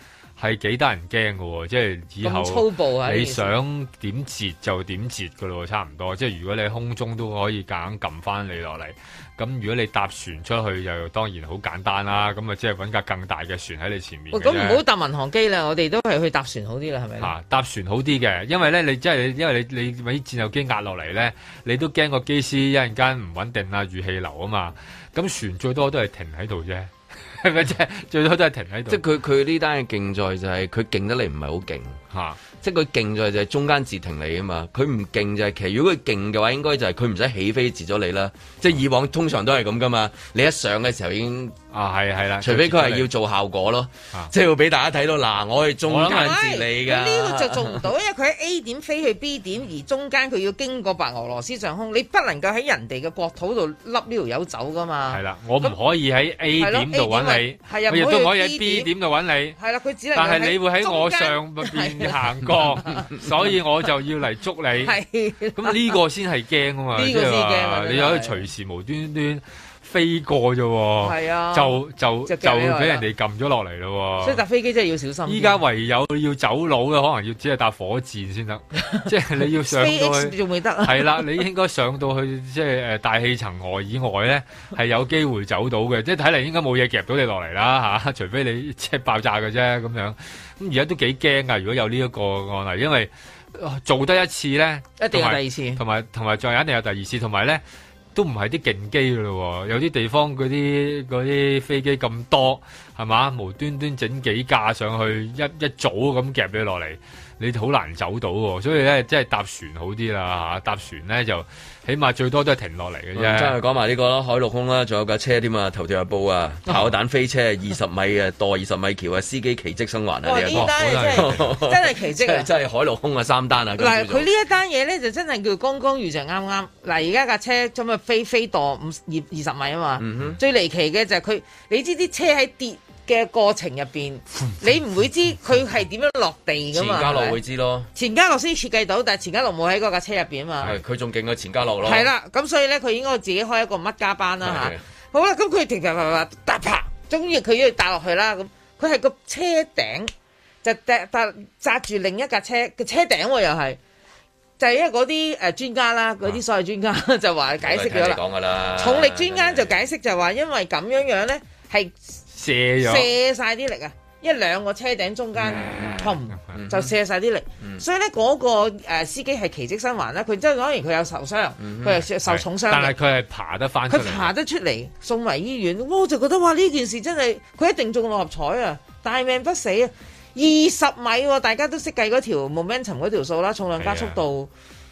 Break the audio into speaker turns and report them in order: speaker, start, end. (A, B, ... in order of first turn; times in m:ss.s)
0:00.4-0:14.8 A
0:02.2-0:03.5 B
0:14.3-0:17.3 B
0:17.2-0:29.0 A
0:28.9-0:32.0 C
0:32.1-0:32.4 A
0:32.5-0:41.6 C
0:41.7-0:43.0 A
0:42.4-0:47.8 C
0:45.9-0:46.4 A
0:46.0-0:55.7 B
0:55.1-0:59.6 A
0:56.6-0:58.9 B
0:59.6-1:02.2 B
1:00.1-1:05.0 A
1:04.8-1:05.9 B
1:05.6-1:14.4 A
1:07.0-1:08.4 B
1:11.0-1:11.7 B
1:12.3-1:13.0 B
1:14.2-1:15.6 B
1:15.2-1:37.6 A
1:19.6-1:21.3 B
1:35.0-1:35.8 B
1:38.1-1:53.6 A
1:53.2-2:04.3 C
2:00.2-2:02.5 B
2:00.4-2:01.5 A
2:03.8-2:17.4 B
2:10.0-2:10.4 C
2:16.7-2:17.9 C
2:17.9-2:20.7 B
2:20.6-2:22.1 C
2:21.8-2:30.1 B
2:24.4-2:24.8 C
2:30.6-2:33.8 B
2:34.6-2:38.2 B
2:37.6-2:39.8 C
2:38.8-2:41.9 B
2:42.3-2:43.1 A
2:42.8-2:53.0 B
2:45.4-2:46.9 C
2:51.6-2:52.0 C
2:52.2-2:54.3 A
2:53.9-3:04.5 B
3:03.8-3:04.2 A